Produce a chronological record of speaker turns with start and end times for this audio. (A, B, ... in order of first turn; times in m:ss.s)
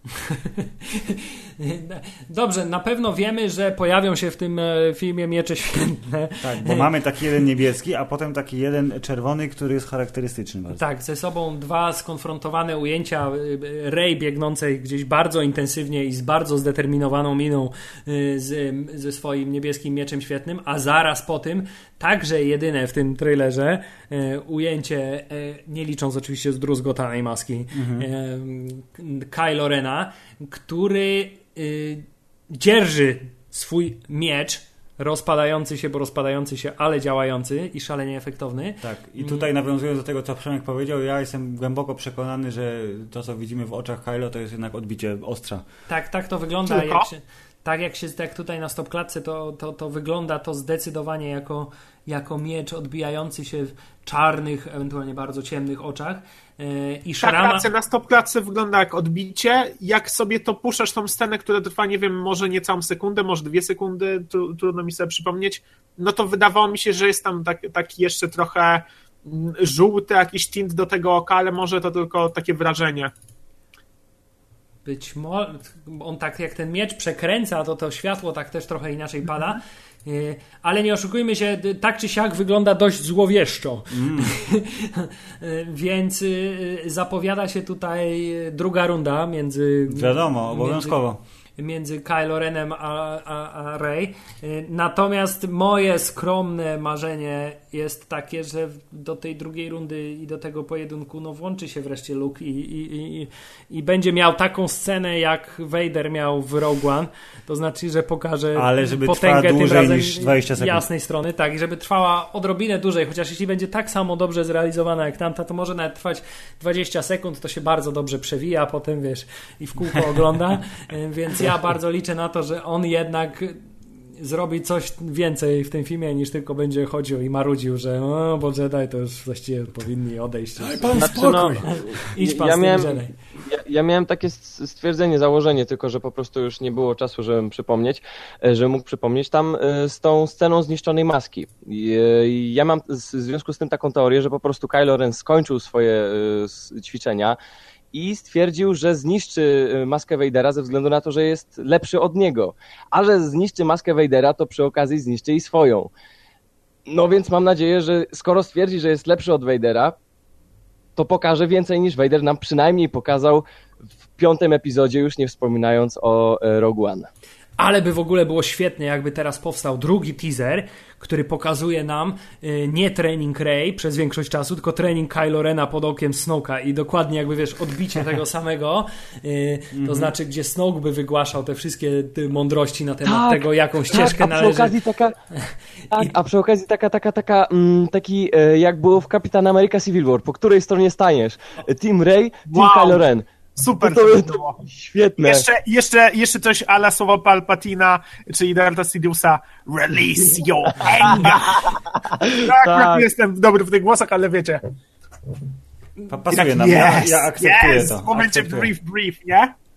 0:00.2-0:06.9 A
0:06.4-0:10.8 B
0:10.8-0:39.5 A
0:27.7-0:28.1 B
0:38.8-0:45.6 B
0:45.9-0:57.7 A
0:46.7-0:47.1 C
0:57.2-1:13.1 C
1:14.8-1:31.0 A
1:23.9-1:24.3 B
1:29.9-1:31.2 B
1:31.6-2:03.6 A
1:48.6-1:50.9 B
2:04.2-2:13.1 A
2:10.6-2:11.8 B
2:10.9-2:27.4 D
2:27.9-2:35.9 D
2:36.9-2:40.0 D
2:41.0-2:43.4 D
2:44.2-2:47.1 D
2:47.6-3:04.7 A
2:59.7-3:00.1 B
3:03.0-3:05.2 D
3:05.9-3:13.3 D
3:12.5-3:14.6 C
3:13.8-3:15.5 D
3:15.2-3:21.8 C
3:20.8-3:23.1 D
3:22.3-3:24.6 C
3:26.1-3:28.7 B
3:26.3-3:29.5 C